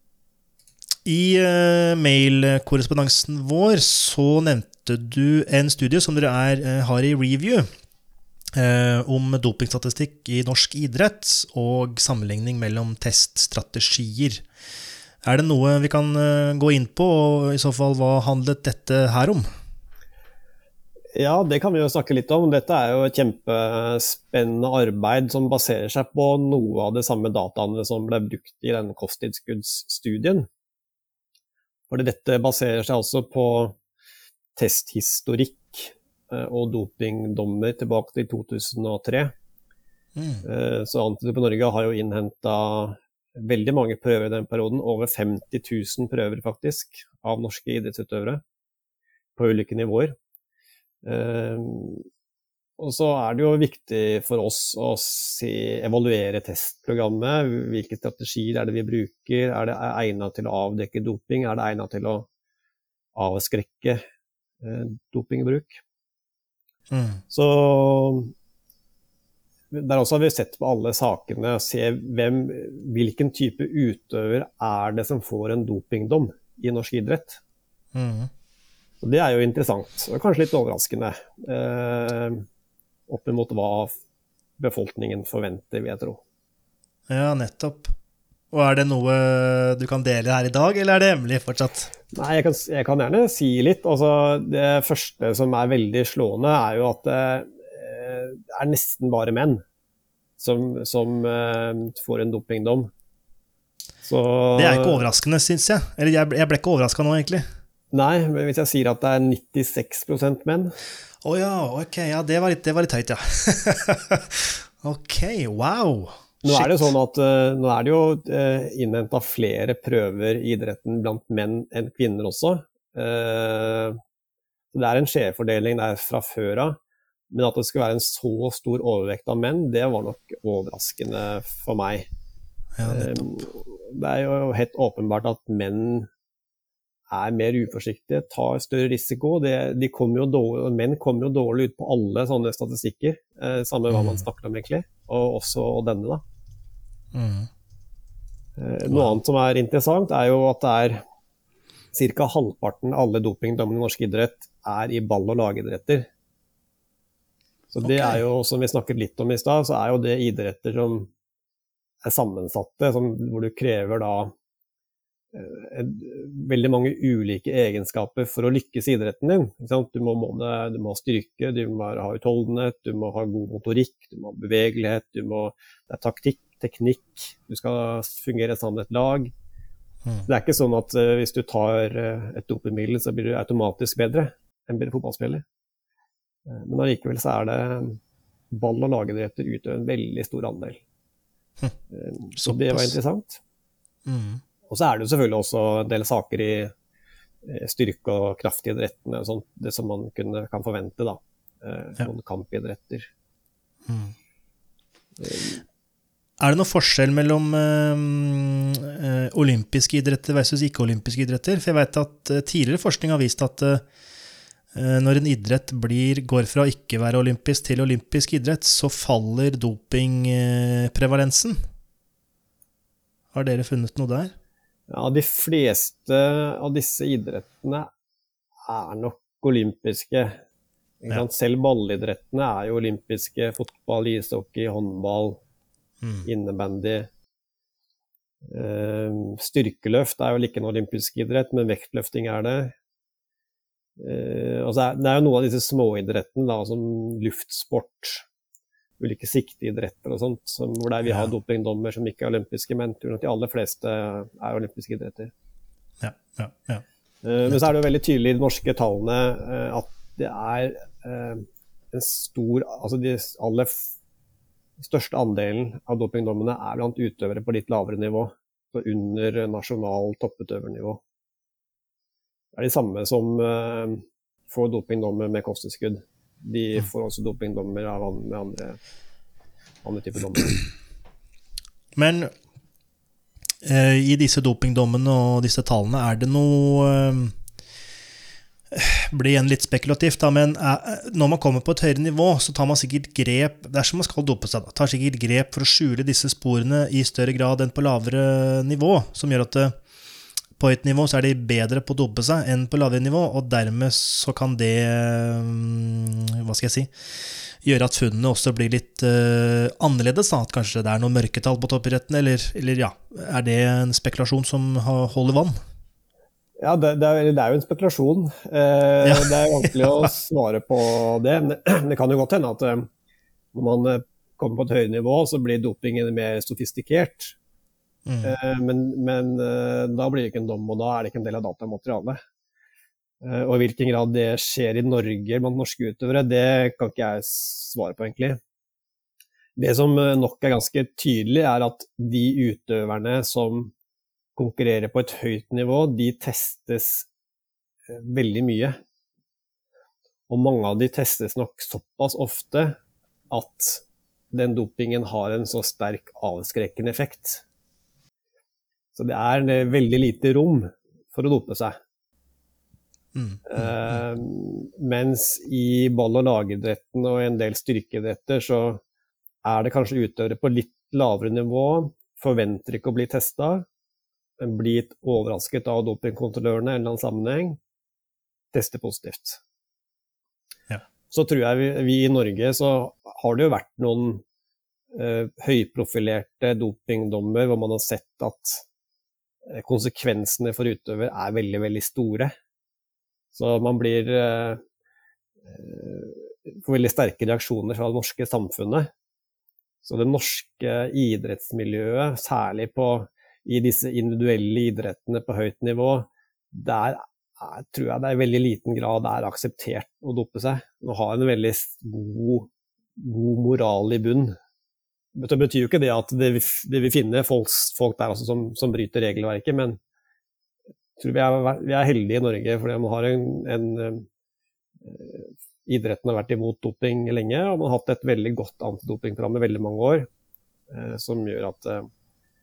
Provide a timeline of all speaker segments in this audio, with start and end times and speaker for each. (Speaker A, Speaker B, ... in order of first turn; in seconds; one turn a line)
Speaker A: 1.0-7.7
Speaker A: 8.5-14.4
Speaker A: 15.2-19.4
Speaker B: 21.1-30.5
Speaker B: 31.9-33.8
Speaker B: 34.6-39.3
Speaker A: 40.2-40.4
Speaker B: 40.4-48.4
Speaker B: 49.4-50.1
Speaker B: 51.0-52.0
Speaker B: 52.8-62.3
Speaker B: 63.1-64.0
Speaker B: 64.6-65.8
Speaker A: 66.9-67.2
Speaker B: 67.3-68.3
Speaker B: 69.7-77.4
Speaker A: 77.9-78.3
Speaker B: 79.0-82.4
Speaker B: 83.1-83.9
Speaker B: 84.6-86.2
Speaker A: 87.1-87.9
Speaker A: 88.5-91.9
Speaker B: 92.1-99.6
Speaker B: 100.4-102.9
Speaker B: 104.0-105.0
Speaker A: 104.5-107.4
Speaker B: 107.9-110.7
Speaker A: 111.2-116.9
Speaker B: 116.4-124.0
Speaker B: 124.7-126.8
Speaker B: 127.3-132.1
Speaker A: 132.8-133.2
Speaker B: 132.8-136.1
Speaker B: 137.1-146.2
Speaker A: 143.9-144.2
Speaker A: 147.1-147.5
Speaker B: 148.6-151.0
Speaker A: 148.9-149.1
Speaker B: 151.9-156.1
Speaker B: 157.7-161.1
Speaker A: 157.8-158.2
Speaker B: 162.0-164.3
Speaker B: 165.3-179.3
Speaker B: 180.3-185.4
Speaker B: 186.5-188.0
Speaker B: 188.5-190.8
Speaker B: 191.9-193.4
Speaker A: 192.4-192.9
Speaker A: 194.1-194.4
Speaker B: 194.7-196.7
Speaker B: 197.4-203.1
Speaker A: 203.9-204.1
Speaker B: 205.2-205.6
Speaker A: 206.4-213.8
Speaker A: 214.7-221.6
Speaker A: 223.3-224.3
Speaker B: 224.9-227.9
Speaker B: 228.7-230.4
Speaker B: 231.0-235.4
Speaker A: 236.0-236.3
Speaker B: 236.2-237.1
Speaker B: 238.4-242.7
Speaker B: 244.0-248.2
Speaker B: 249.0-255.3
Speaker A: 251.0-251.3
Speaker A: 256.0-256.8
Speaker B: 257.2-263.9
Speaker A: 257.4-257.7
Speaker B: 264.8-271.0
Speaker B: 272.5-278.8
Speaker B: 279.8-280.6
Speaker A: 281.9-282.3
Speaker A: 283.6-287.3
Speaker A: 288.7-299.7
Speaker A: 300.6-306.9
Speaker A: 307.6-315.5
Speaker B: 316.6-322.9
Speaker A: 319.0-320.1
Speaker B: 323.5-327.4
Speaker A: 328.1-328.4
Speaker B: 328.2-332.2
Speaker B: 333.2-338.4
Speaker B: 339.6-343.7
Speaker B: 344.4-347.1
Speaker B: 347.9-348.7
Speaker B: 350.3-352.8
Speaker B: 353.3-357.4
Speaker B: 358.9-361.8
Speaker A: 363.1-363.6
Speaker B: 363.4-368.8
Speaker B: 369.4-373.6
Speaker B: 374.4-377.6
Speaker B: 378.5-379.4
Speaker B: 381.1-384.2
Speaker B: 384.9-388.6
Speaker B: 389.5-392.3
Speaker B: 393.3-394.6
Speaker B: 395.4-398.9
Speaker B: 399.8-414.3
Speaker B: 415.1-419.8
Speaker B: 421.0-424.1
Speaker B: 424.8-430.1
Speaker B: 430.7-431.9